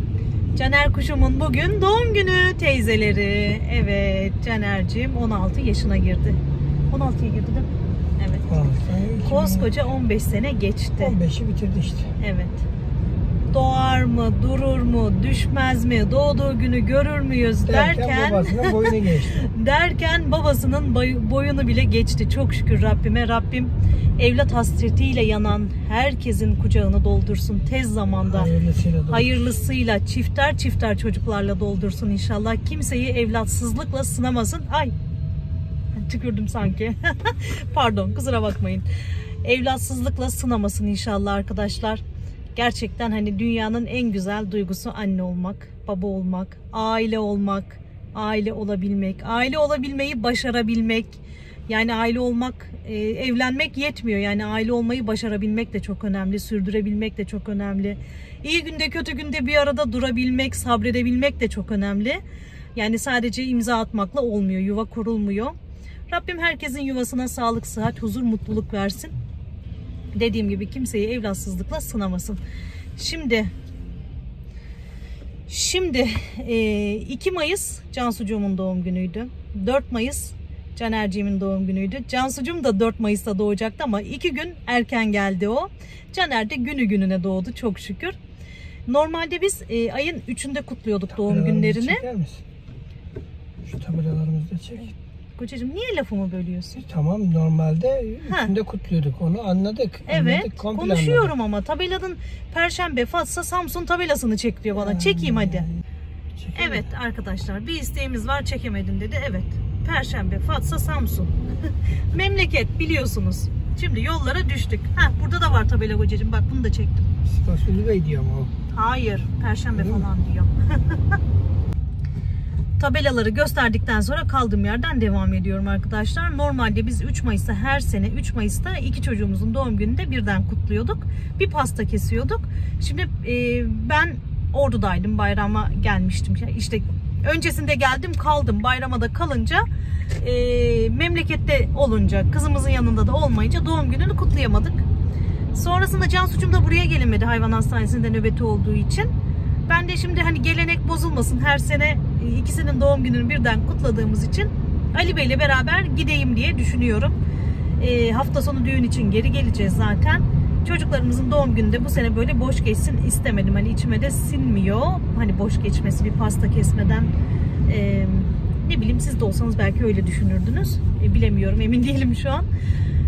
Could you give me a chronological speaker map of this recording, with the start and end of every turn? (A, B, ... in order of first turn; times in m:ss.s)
0:00.5-0:08.5 A
0:08.5-0:09.9 B
0:09.2-0:11.2 A
0:11.0-0:12.1 B
0:12.2-0:12.6 A
0:13.5-0:28.5 A
0:17.6-0:19.5 B
0:28.2-0:29.3 B
0:29.1-0:34.9 A
0:35.9-0:38.9 A
0:39.4-0:42.0 A
0:42.6-1:02.2 A
1:02.7-1:05.5 A
1:06.1-1:09.1 A
1:10.1-1:12.4 A
1:13.0-1:13.5 A
1:15.5-1:28.2 A
1:28.9-1:32.0 A
1:31.1-1:32.4 B
1:33.6-1:34.9 B
1:35.4-1:36.8 A
1:36.8-1:41.3 B
1:40.1-1:45.7 A
1:44.7-1:45.8 B
1:46.4-1:46.9 B
1:46.5-1:57.1 A
1:57.2-1:58.5 B
1:58.7-2:01.2 A
1:59.7-2:00.0 B
2:02.8-2:19.6 A
2:20.2-2:24.8 A
2:25.5-2:29.1 A
2:29.7-2:37.2 A
2:37.8-2:47.1 A
2:47.6-2:52.5 A